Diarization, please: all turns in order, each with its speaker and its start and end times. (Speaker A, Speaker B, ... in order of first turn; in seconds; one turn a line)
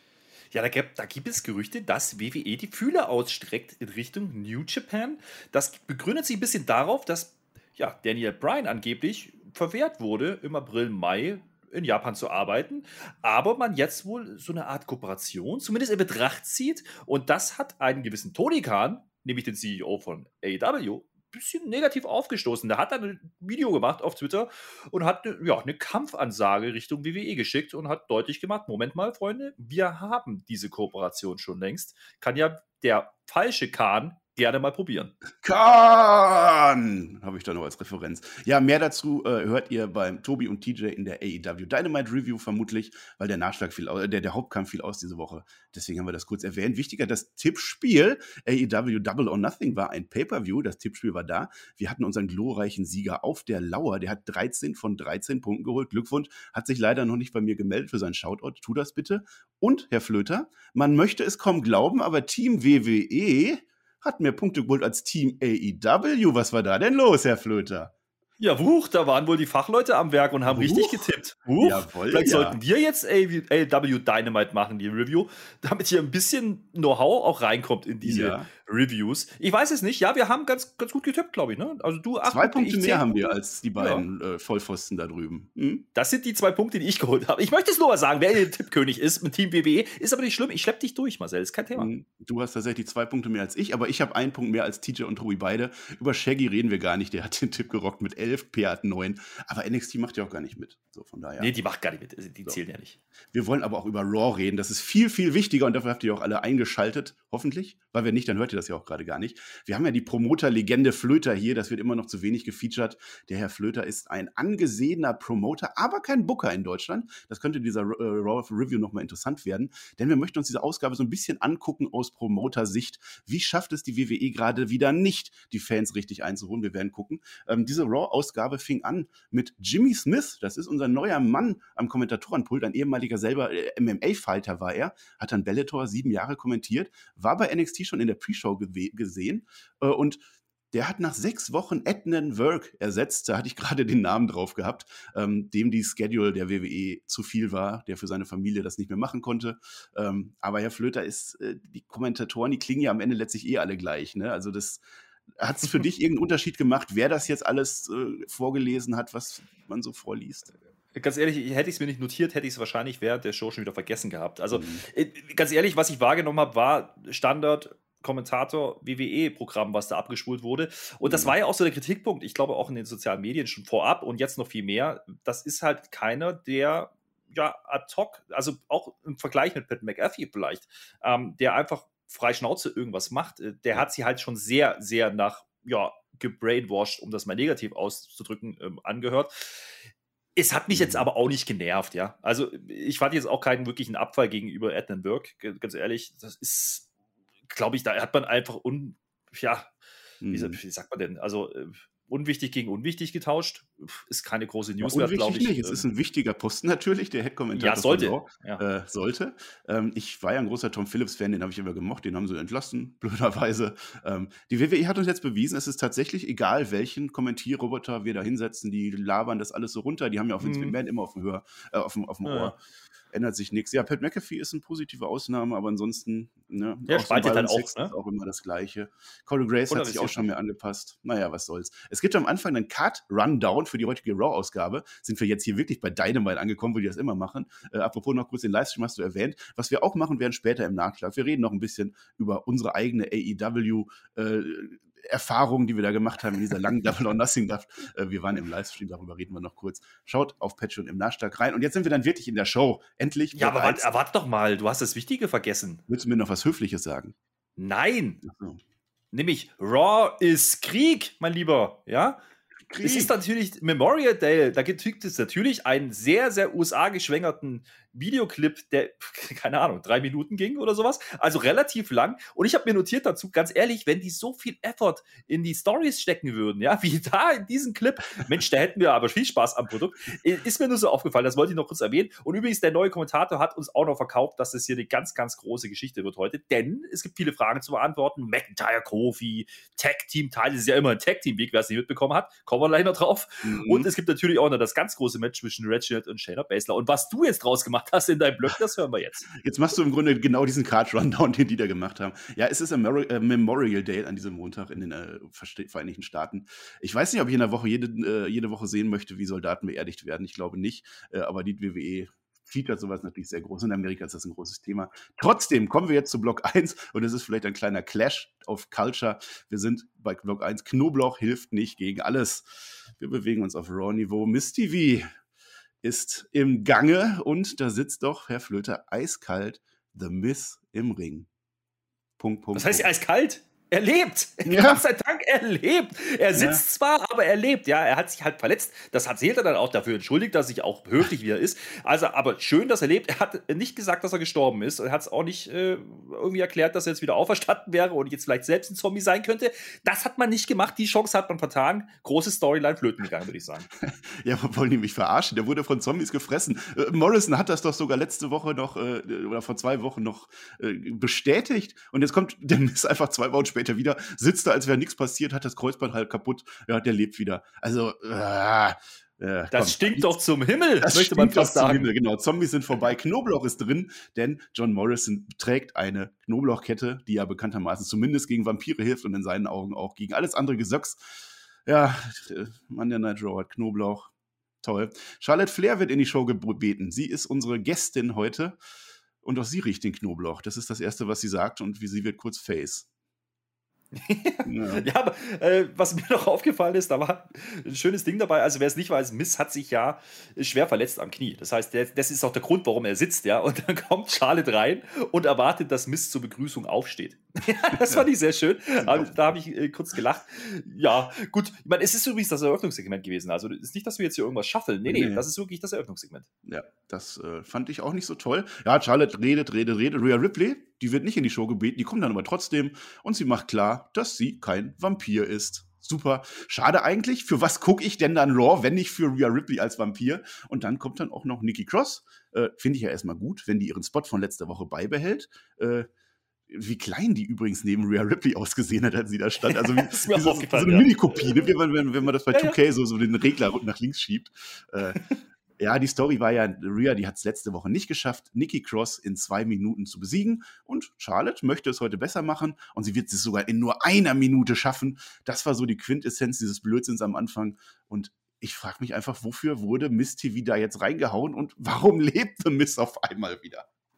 Speaker A: 0.5-35.1
Speaker B: 35.4-67.9
Speaker A: 68.4-84.0
Speaker B: 70.5-72.6
Speaker B: 78.0-78.5
Speaker B: 82.2-85.8
Speaker A: 85.9-91.9
Speaker B: 91.7-101.5
Speaker A: 101.4-103.0
Speaker B: 103.3-140.2
Speaker B: 140.7-154.8
Speaker B: 155.3-160.5
Speaker A: 160.9-189.7
Speaker B: 164.5-164.8
Speaker B: 171.0-171.3
Speaker A: 190.3-196.9
Speaker B: 190.7-191.1
Speaker A: 197.5-199.7
Speaker B: 200.2-200.6
Speaker A: 200.3-205.8
Speaker B: 204.8-222.6
Speaker A: 207.5-208.6
Speaker A: 220.4-220.8
Speaker A: 222.2-222.5
Speaker B: 223.1-253.9
Speaker A: 226.9-227.9
Speaker A: 229.7-230.3
Speaker A: 253.3-255.8
Speaker B: 255.9-257.1
Speaker A: 257.6-258.2
Speaker B: 258.2-258.6
Speaker A: 259.1-262.2
Speaker B: 262.7-263.1
Speaker A: 262.8-299.3
Speaker B: 293.4-293.9
Speaker B: 299.3-325.1
Speaker B: 325.8-331.3
Speaker B: 332.2-332.9
Speaker A: 332.5-353.7
Speaker B: 334.4-334.8
Speaker B: 336.3-336.6
Speaker B: 353.8-370.1
Speaker A: 369.5-371.9
Speaker B: 370.8-388.6
Speaker B: 389.2-392.9
Speaker A: 393.9-416.3
Speaker B: 394.4-394.9
Speaker B: 407.7-408.1
Speaker B: 408.8-409.3
Speaker B: 414.8-415.2
Speaker B: 416.4-435.9
Speaker B: 436.5-445.0
Speaker A: 439.4-441.4
Speaker A: 442.3-442.6
Speaker B: 445.6-463.7